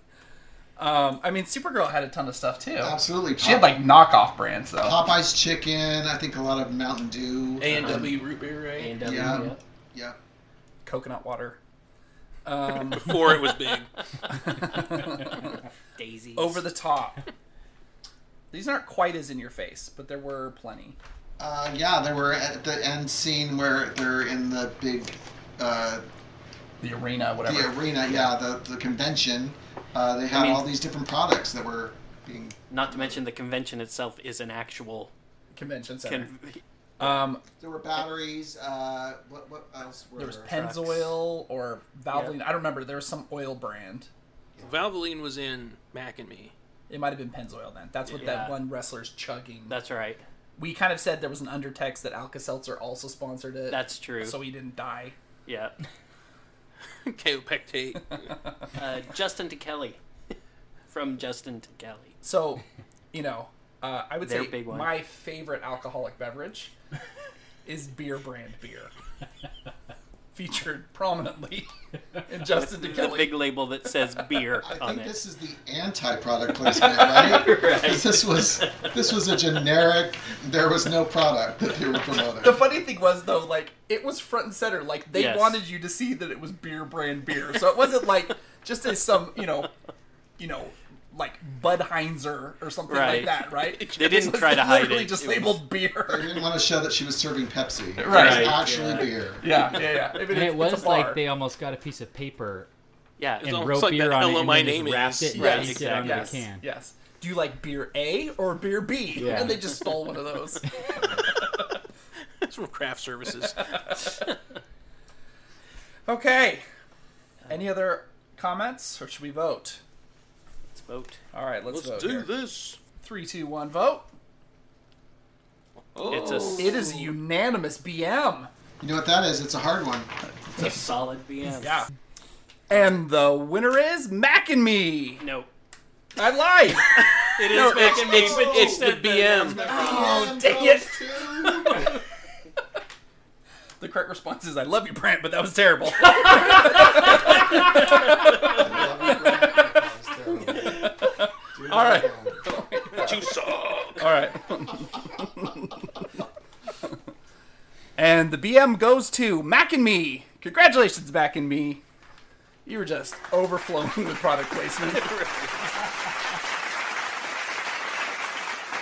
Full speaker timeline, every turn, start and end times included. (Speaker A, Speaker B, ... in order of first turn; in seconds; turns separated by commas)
Speaker A: 0.8-5.0, Speaker B: 2.8-3.8, Speaker B: 4.8-8.2, Speaker C: 7.6-9.0, Speaker D: 7.7-8.1, Speaker D: 8.8-9.6, Speaker B: 9.0-10.2, Speaker A: 10.8-11.6, Speaker A: 12.4-13.3, Speaker C: 12.9-13.9, Speaker A: 14.3-15.4, Speaker D: 16.0-16.7, Speaker A: 16.4-17.2, Speaker A: 18.5-21.0, Speaker B: 21.4-26.1, Speaker A: 26.8-28.3, Speaker B: 27.4-33.2, Speaker D: 30.3-30.6, Speaker D: 32.7-35.1, Speaker A: 35.5-36.4, Speaker D: 36.0-36.6, Speaker A: 37.0-37.4, Speaker B: 37.0-40.6, Speaker A: 40.2-44.1, Speaker D: 40.5-41.1, Speaker B: 44.6-44.9, Speaker C: 44.6-46.5, Speaker A: 46.9-49.8, Speaker C: 48.1-48.3, Speaker D: 48.2-48.6, Speaker D: 49.7-50.2, Speaker A: 50.6-55.2, Speaker D: 53.7-54.4, Speaker D: 55.5-55.8, Speaker C: 57.0-58.4, Speaker D: 58.8-60.0, Speaker D: 60.9-62.1, Speaker A: 62.2-66.7, Speaker D: 64.2-64.9, Speaker A: 67.6-68.9, Speaker A: 70.3-71.7, Speaker A: 72.2-73.4, Speaker D: 72.5-75.1, Speaker B: 74.6-82.6, Speaker D: 76.8-78.9, Speaker A: 82.4-89.7, Speaker D: 85.1-85.6, Speaker A: 90.4-96.4, Speaker D: 92.9-95.6, Speaker B: 96.1-99.6, Speaker A: 98.0-98.8, Speaker D: 98.1-99.1, Speaker A: 99.4-101.2, Speaker E: 100.2-102.7, Speaker D: 103.2-103.7, Speaker E: 103.4-106.6, Speaker C: 103.4-105.4, Speaker A: 105.3-111.6, Speaker D: 105.3-106.4, Speaker E: 109.2-109.7, Speaker C: 112.4-114.0, Speaker A: 116.1-116.6, Speaker A: 117.5-119.8, Speaker D: 120.7-121.2, Speaker A: 121.3-122.3, Speaker C: 121.7-122.8, Speaker A: 123.0-124.1, Speaker C: 125.9-127.1, Speaker D: 126.1-126.8, Speaker A: 126.5-128.5, Speaker B: 128.8-130.1, Speaker D: 130.6-131.8, Speaker A: 131.6-131.9, Speaker A: 132.7-135.2, Speaker D: 135.2-135.5, Speaker A: 136.2-138.6, Speaker D: 137.2-140.2, Speaker C: 137.6-139.7, Speaker B: 137.9-138.8, Speaker B: 139.4-142.0, Speaker A: 139.5-141.9, Speaker A: 143.8-149.6, Speaker B: 148.2-152.5, Speaker A: 150.6-153.3, Speaker C: 152.9-154.1, Speaker A: 154.0-156.0, Speaker A: 158.0-161.8, Speaker A: 162.6-165.1, Speaker D: 164.8-165.7